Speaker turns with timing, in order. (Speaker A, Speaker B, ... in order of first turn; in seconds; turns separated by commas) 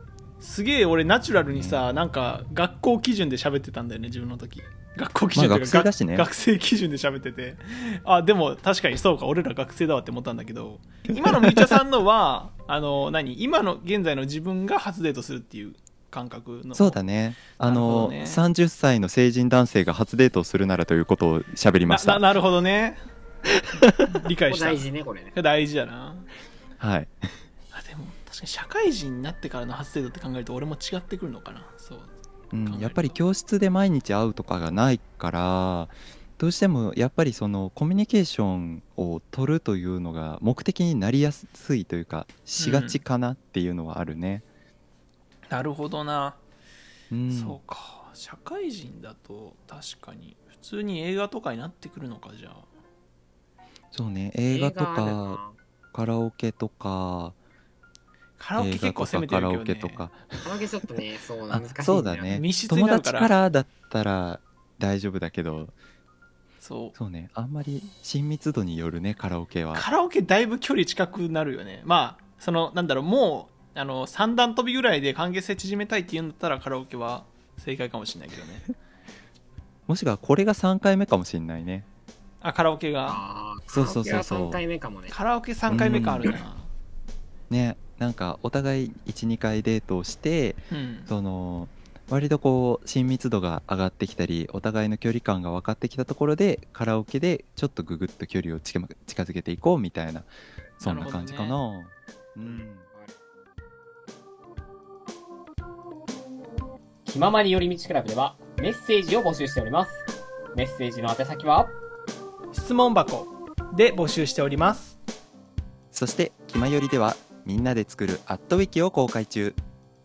Speaker A: 0.4-17.0, Speaker B: 1.6-1.8, Speaker B: 5.3-6.3, Speaker B: 16.8-22.2, Speaker A: 17.6-18.4, Speaker A: 21.9-23.0, Speaker B: 23.5-24.0, Speaker A: 24.1-26.3, Speaker C: 24.5-25.3, Speaker B: 26.8-27.1, Speaker A: 27.7-33.2, Speaker B: 32.5-44.5, Speaker A: 42.6-43.0, Speaker A: 45.5-46.4, Speaker B: 47.1-47.6, Speaker A: 47.3-52.7, Speaker B: 53.9-55.4, Speaker C: 54.5-55.6, Speaker B: 55.9-57.4, Speaker A: 58.4-60.0, Speaker B: 58.6-60.6, Speaker C: 60.4-62.4, Speaker B: 61.5-65.7, Speaker A: 62.3-63.3, Speaker A: 66.6-67.0, Speaker B: 67.0-69.8, Speaker A: 69.7-78.7, Speaker B: 79.9-81.9, Speaker A: 82.4-83.2, Speaker C: 83.0-85.1, Speaker B: 83.7-84.6, Speaker A: 85.1-86.7, Speaker B: 85.7-86.3, Speaker B: 87.5-100.3, Speaker A: 90.7-91.1, Speaker A: 100.8-101.6, Speaker B: 100.8-102.9, Speaker C: 102.4-103.1, Speaker C: 107.0-111.8, Speaker A: 112.5-115.0, Speaker B: 115.9-119.6